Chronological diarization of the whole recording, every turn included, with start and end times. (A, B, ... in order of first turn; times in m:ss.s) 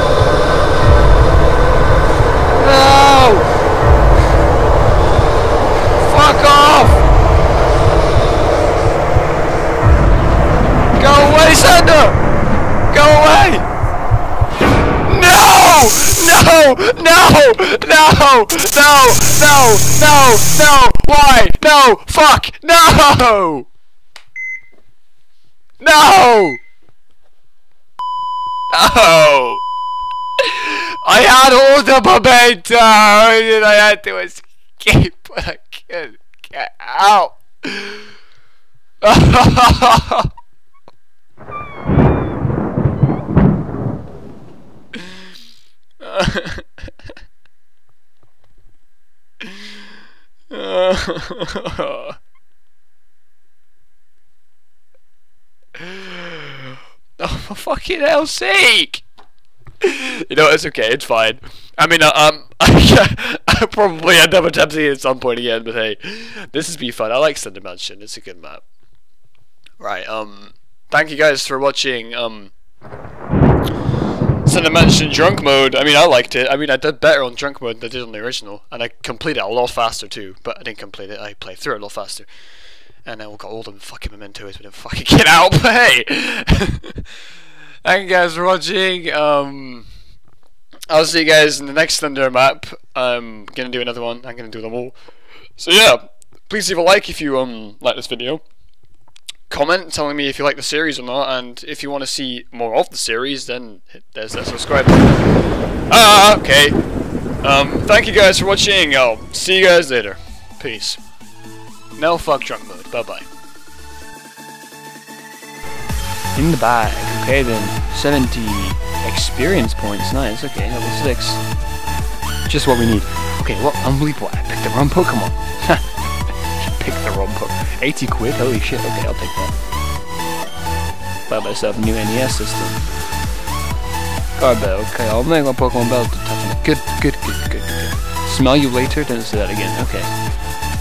0:02.6-0:03.5 A
0:06.0-0:07.0 A
0:11.0-0:12.2 A
0:12.9-0:13.6 A
0:15.0-0:23.7 A
0:25.8-0:26.6 A
0:28.7-0:29.6 A
0:30.4-0:38.0 A
0:39.0-0:40.3 A
0:46.0-0:46.9 A
0:49.4-0:49.7 A
0:50.5-0:52.2 A
0:55.8-0:59.0 A
0:59.8-1:08.6 A
1:09.8-1:12.5 A
1:14.4-1:22.3 A
1:23.0-1:27.1 A
1:27.8-1:29.9 A
1:30.9-1:35.0 A
1:35.6-1:38.4 A
1:39.5-1:45.2 A
1:45.9-1:46.8 A
1:47.4-1:51.0 A
1:52.0-1:53.2 A
1:56.3-2:01.4 A
2:02.5-2:06.0 A
2:06.6-2:09.5 A
2:11.3-2:12.8 A
2:14.4-2:20.1 A